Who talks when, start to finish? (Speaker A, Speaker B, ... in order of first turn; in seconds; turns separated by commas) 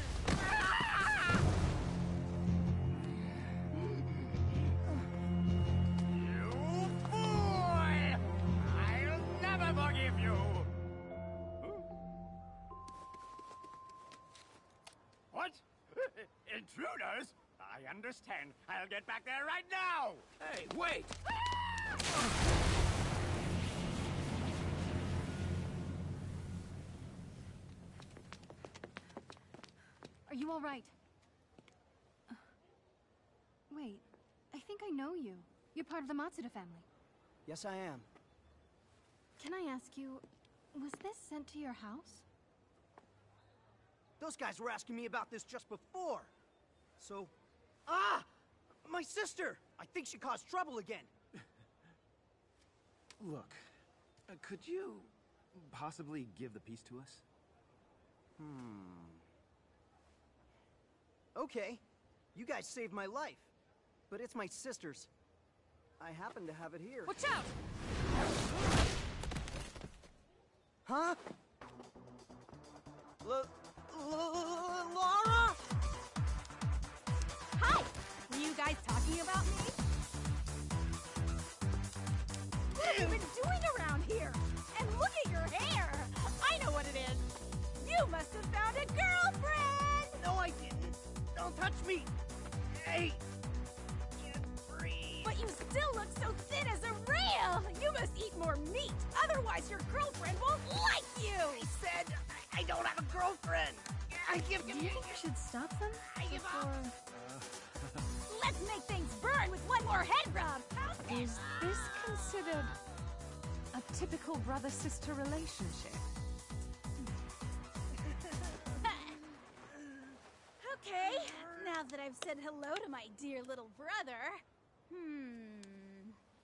Speaker A: 6.1-10.7, Speaker A: 15.3-20.2, Speaker B: 20.4-21.1, Speaker C: 30.2-30.9, Speaker C: 33.7-36.9, Speaker D: 37.5-38.1, Speaker C: 39.4-42.2, Speaker D: 44.2-46.3, Speaker D: 47.0-47.3, Speaker D: 47.9-48.3, Speaker D: 48.8-51.1, Speaker B: 53.2-53.6, Speaker B: 54.3-57.2, Speaker D: 61.3-61.8, Speaker D: 62.3-63.5, Speaker D: 64.1-65.1, Speaker D: 66.0-67.2, Speaker E: 67.1-67.5, Speaker D: 70.8-71.2, Speaker D: 73.2-75.6, Speaker E: 77.5-79.8, Speaker D: 82.7-83.2, Speaker E: 82.7-90.2, Speaker D: 90.1-92.1, Speaker D: 92.7-93.2, Speaker D: 94.2-95.3, Speaker E: 95.2-101.7, Speaker D: 101.4-105.1, Speaker C: 104.2-106.9, Speaker D: 106.1-106.7, Speaker B: 107.2-107.4, Speaker E: 108.3-111.1, Speaker F: 111.1-112.7, Speaker F: 113.7-116.0, Speaker E: 118.8-119.1, Speaker E: 120.6-126.2